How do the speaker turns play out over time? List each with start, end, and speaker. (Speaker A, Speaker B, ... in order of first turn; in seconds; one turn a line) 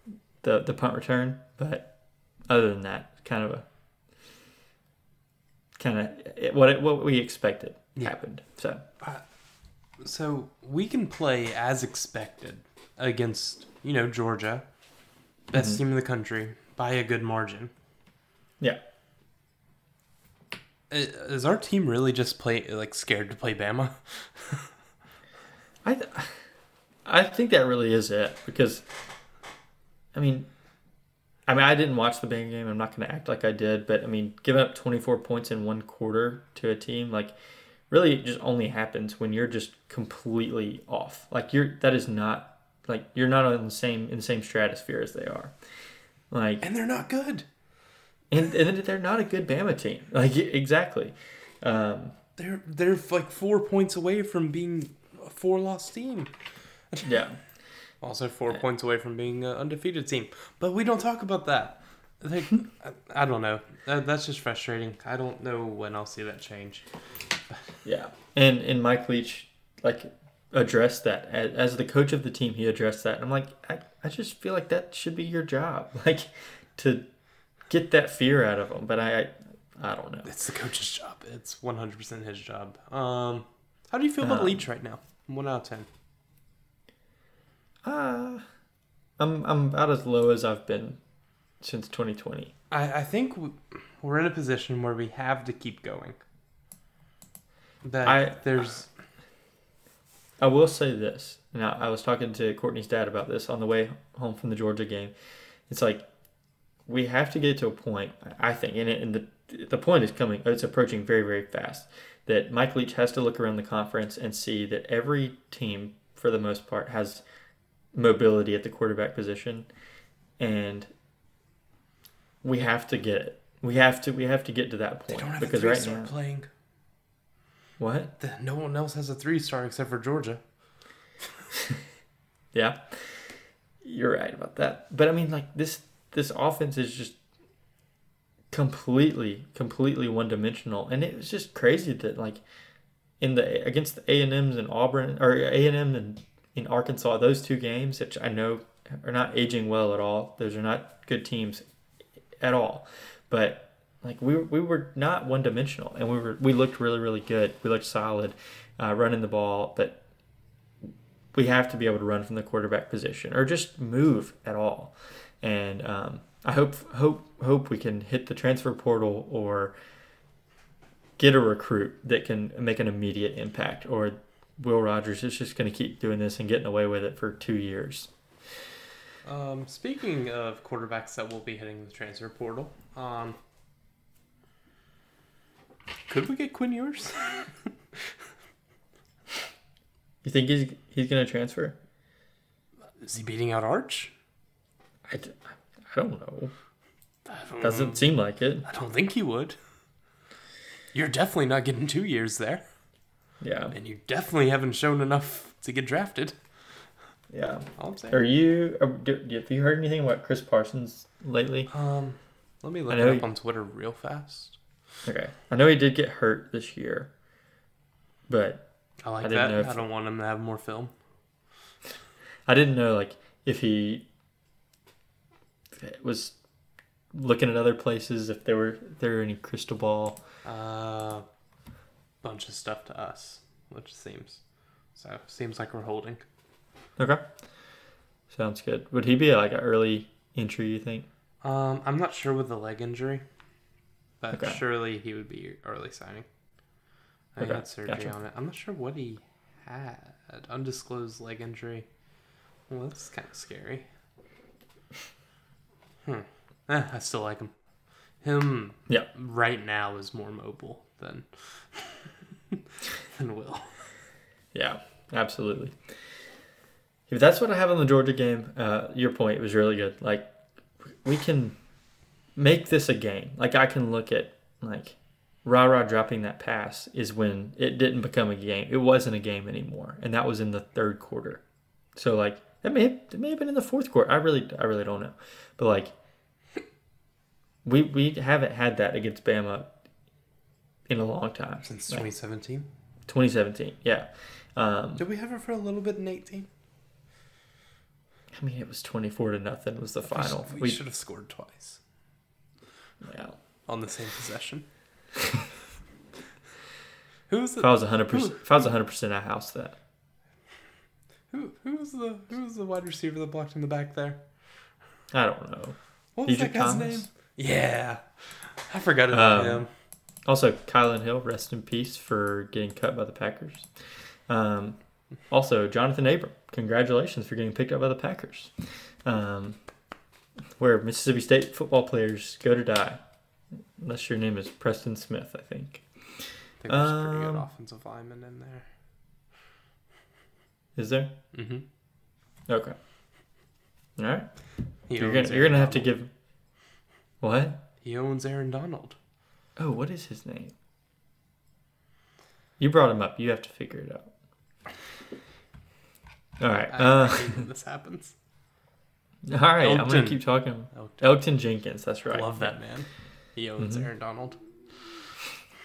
Speaker A: 0.4-1.9
Speaker A: 2.5-3.7
Speaker A: 5.8-8.8
Speaker B: 9.0-9.2
Speaker B: 10.0-14.7
Speaker B: 15.5-17.7
Speaker A: 15.5-15.8
Speaker B: 20.9-24.7
Speaker A: 25.8-26.5
Speaker A: 27.1-28.8
Speaker A: 30.1-30.5
Speaker A: 31.5-37.3
Speaker A: 37.9-45.5
Speaker A: 46.3-46.6
Speaker B: 46.6-47.5
Speaker A: 48.3-52.2
Speaker B: 52.4-56.3
Speaker A: 57.0-57.5
Speaker B: 58.0-67.8
Speaker A: 67.8-77.0
Speaker A: 77.7-80.3
Speaker B: 80.2-85.9
Speaker A: 84.2-84.7
Speaker A: 87.8-88.5
Speaker A: 89.2-91.0
Speaker A: 91.6-92.5
Speaker B: 92.7-96.2
Speaker B: 97.8-98.9
Speaker A: 98.0-98.4
Speaker A: 100.4-105.1
Speaker A: 105.7-106.0
Speaker A: 106.9-117.2
Speaker A: 117.9-119.7
Speaker A: 120.4-120.9
Speaker A: 122.4-126.1
Speaker B: 125.1-126.5
Speaker A: 127.8-128.1
Speaker B: 128.2-130.4
Speaker A: 132.5-137.2
Speaker A: 138.5-142.4
Speaker A: 143.2-151.6
Speaker A: 152.4-160.0
Speaker A: 161.3-169.7
Speaker A: 171.2-178.1
Speaker B: 179.2-183.4
Speaker B: 186.1-188.1
Speaker A: 190.2-191.8
Speaker B: 193.0-194.1
Speaker A: 195.1-196.5
Speaker B: 197.3-198.1
Speaker A: 197.6-198.7
Speaker B: 198.6-199.6
Speaker B: 200.9-202.6
Speaker A: 203.4-203.7
Speaker B: 203.7-206.4
Speaker A: 207.3-211.7
Speaker B: 207.8-208.2
Speaker B: 211.7-214.6
Speaker A: 212.9-213.2
Speaker A: 215.1-217.1
Speaker A: 218.3-218.7
Speaker B: 219.0-220.9
Speaker A: 219.2-219.8
Speaker A: 222.5-224.1
Speaker A: 225.8-226.4
Speaker A: 227.1-230.2
Speaker B: 230.4-231.2
Speaker B: 232.2-234.4
Speaker B: 234.9-236.2
Speaker A: 237.0-237.2
Speaker A: 238.3-241.1
Speaker B: 241.4-243.2
Speaker B: 244.2-246.3
Speaker A: 244.3-244.6
Speaker B: 247.3-251.9
Speaker A: 247.4-248.1
Speaker B: 252.7-253.9
Speaker B: 256.0-257.5
Speaker B: 258.2-263.9
Speaker A: 264.5-265.8
Speaker A: 267.1-271.6
Speaker A: 272.4-281.4
Speaker A: 282.0-285.9
Speaker A: 287.6-289.7
Speaker A: 290.9-292.1
Speaker B: 291.6-292.7
Speaker A: 293.1-295.0
Speaker B: 295.0-296.5
Speaker A: 298.3-300.8
Speaker B: 300.1-301.8
Speaker A: 303.0-303.4
Speaker B: 303.7-304.7
Speaker B: 307.3-308.6
Speaker A: 307.6-309.8
Speaker B: 311.3-314.2
Speaker A: 315.1-317.1
Speaker B: 316.2-319.7
Speaker A: 319.1-319.7
Speaker A: 320.2-323.7
Speaker A: 324.3-329.6
Speaker A: 330.6-333.0
Speaker A: 333.8-337.4
Speaker B: 336.6-338.7
Speaker A: 340.8-341.2
Speaker B: 341.3-341.6
Speaker A: 342.5-342.8
Speaker A: 344.0-344.3
Speaker B: 344.9-345.9
Speaker A: 345.0-346.1
Speaker A: 347.2-347.6
Speaker B: 347.8-349.0
Speaker A: 349.6-350.5
Speaker A: 352.6-354.1
Speaker A: 356.4-357.4
Speaker B: 356.7-358.2
Speaker A: 359.3-362.6
Speaker B: 359.6-361.0
Speaker B: 362.1-364.4
Speaker A: 363.6-363.9